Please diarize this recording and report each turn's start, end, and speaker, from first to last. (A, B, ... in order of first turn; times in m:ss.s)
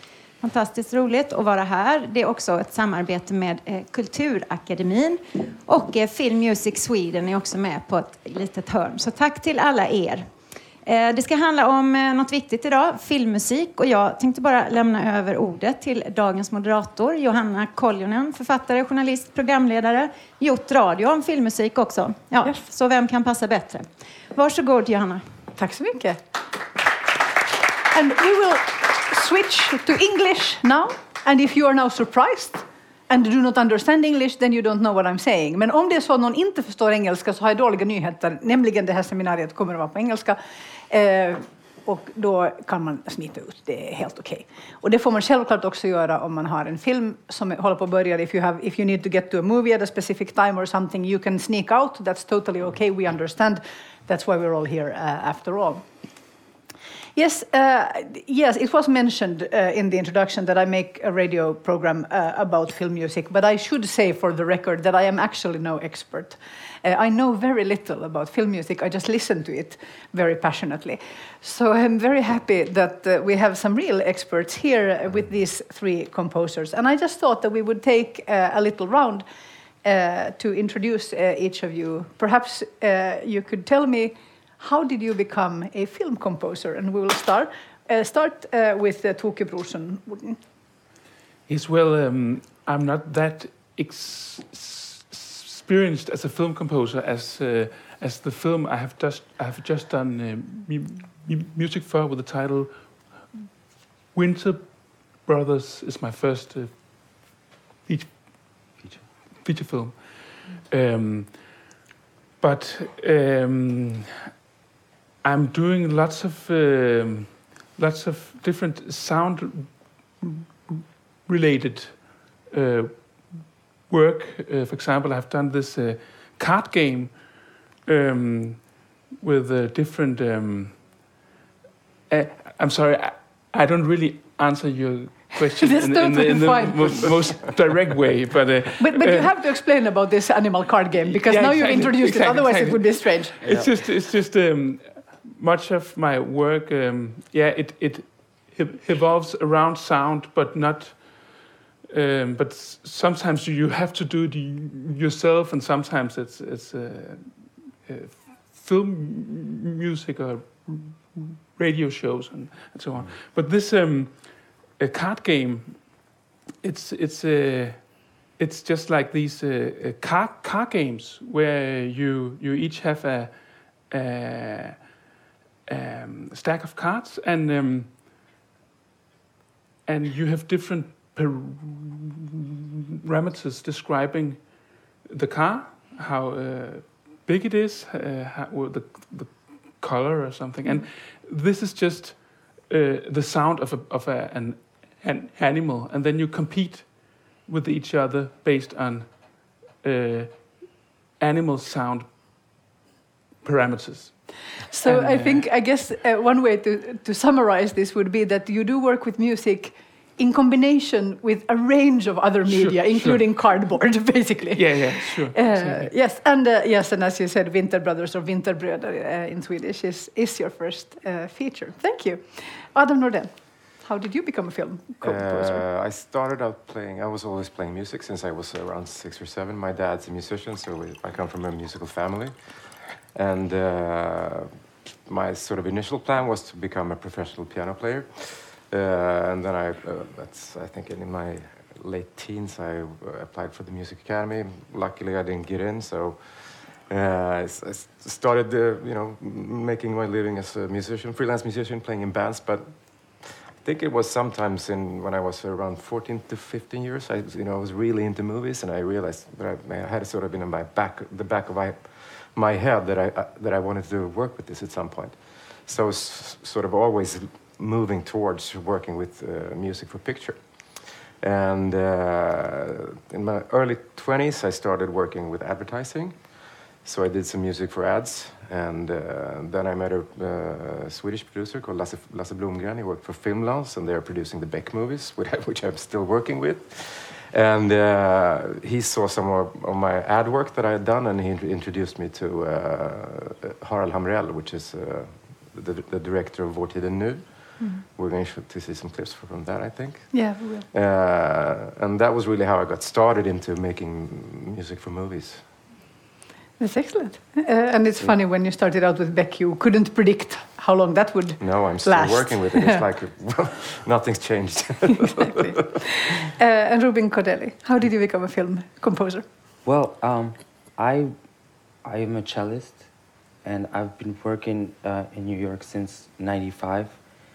0:00.4-0:10.3 A
0:10.8-0:25.2 A
0:25.6-0:26.2 B
0:27.9-0:40.4 B
0:40.9-0:55.8 B
0:57.1-1:19.2 B
1:19.8-1:30.4 B
1:31.5-1:43.4 C
1:44.1-1:48.8 C
1:48.8-1:49.1 D
1:49.4-1:51.8 C
1:52.4-1:54.2 C
1:55.2-2:11.0 C
2:12.1-2:19.5 C
2:15.6-2:17.4 B
2:18.8-2:23.4 B
2:21.0-2:55.0 C
2:23.4-2:23.8 D
2:55.6-2:58.0 C
2:59.8-3:22.8 C
3:23.4-3:25.5 C
3:24.7-3:45.6 B
3:32.4-3:33.9 C
3:34.5-3:35.9 C
3:45.0-5:05.4 E
5:00.1-5:00.7 B
5:06.6-5:12.8 B
5:11.4-5:15.5 E
5:15.2-5:19.2 B
5:19.6-5:27.1 D